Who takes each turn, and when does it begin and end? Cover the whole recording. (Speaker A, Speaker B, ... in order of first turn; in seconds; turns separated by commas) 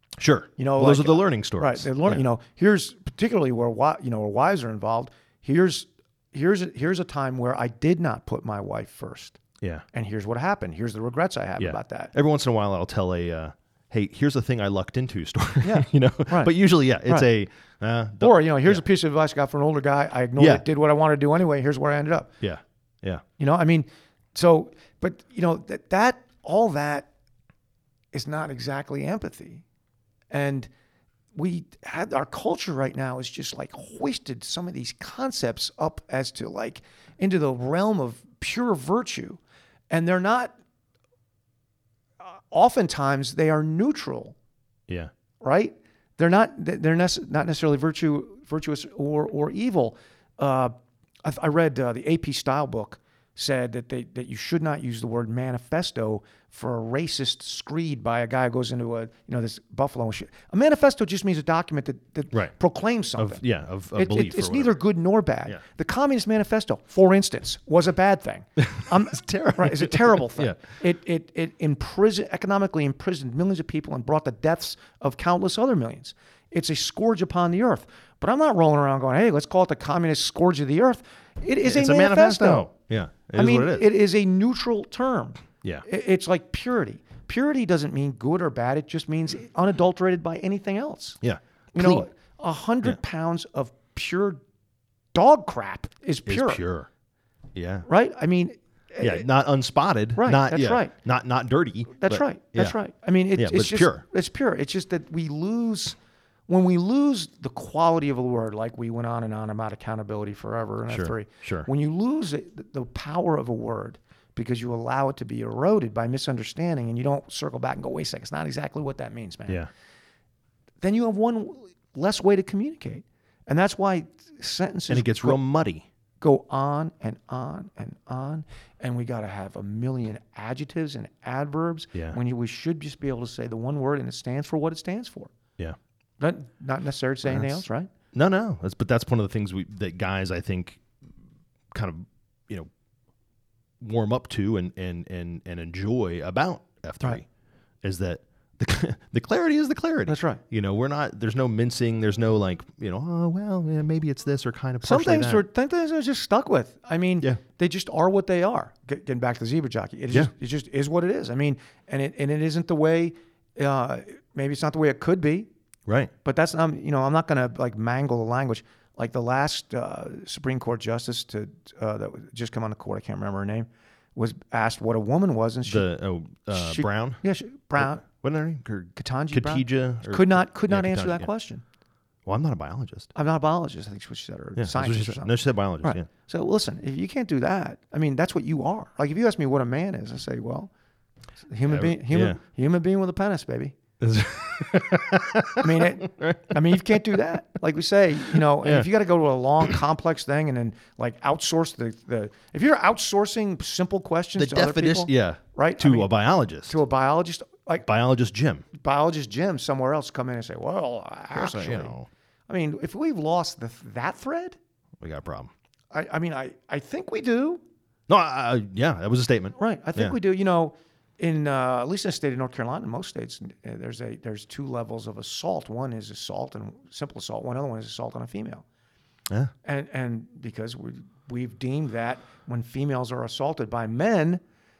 Speaker A: 0.2-2.2, Speaker B: 0.6-9.4, Speaker B: 9.9-12.1, Speaker A: 11.6-18.8, Speaker B: 15.6-16.5, Speaker B: 18.2-22.3, Speaker A: 20.4-20.6, Speaker A: 22.4-23.2, Speaker B: 23.4-27.1, Speaker B: 28.1-29.6, Speaker B: 30.3-30.7, Speaker B: 31.3-40.6, Speaker B: 42.2-44.4, Speaker B: 45.4-63.4, Speaker A: 63.2-64.8, Speaker B: 63.9-82.7, Speaker A: 68.6-70.6, Speaker A: 81.6-83.9, Speaker B: 83.3-91.2, Speaker A: 91.2-92.1, Speaker B: 91.7-94.4, Speaker B: 95.1-96.6, Speaker A: 96.3-96.9, Speaker A: 97.5-97.9, Speaker B: 97.9-99.3, Speaker A: 99.0-102.8, Speaker B: 100.2-100.9, Speaker B: 102.0-106.0, Speaker A: 103.4-104.0, Speaker B: 106.5-119.7, Speaker A: 110.9-111.7, Speaker B: 120.8-125.4, Speaker A: 124.9-125.9, Speaker B: 126.2-135.3, Speaker B: 136.2-137.9, Speaker A: 137.2-140.8, Speaker A: 141.7-142.7, Speaker A: 143.8-147.2, Speaker A: 147.8-155.4, Speaker B: 150.1-150.4, Speaker B: 154.8-165.5, Speaker A: 165.9-166.1, Speaker B: 166.2-175.9, Speaker A: 175.7-177.2, Speaker B: 176.5-178.1, Speaker A: 177.8-181.3, Speaker B: 179.0-181.6, Speaker A: 182.3-183.1, Speaker B: 183.2-190.7, Speaker A: 184.6-186.1, Speaker B: 191.5-193.8, Speaker A: 191.7-192.4, Speaker A: 194.0-197.2, Speaker B: 195.6-206.1, Speaker A: 198.2-198.9, Speaker A: 204.4-206.8, Speaker B: 206.7-207.9, Speaker A: 207.8-208.7, Speaker B: 208.7-212.0, Speaker A: 211.3-212.1, Speaker B: 212.5-214.6, Speaker A: 215.0-215.5, Speaker B: 215.9-217.6, Speaker A: 218.1-220.2, Speaker B: 219.6-228.7, Speaker B: 229.6-234.4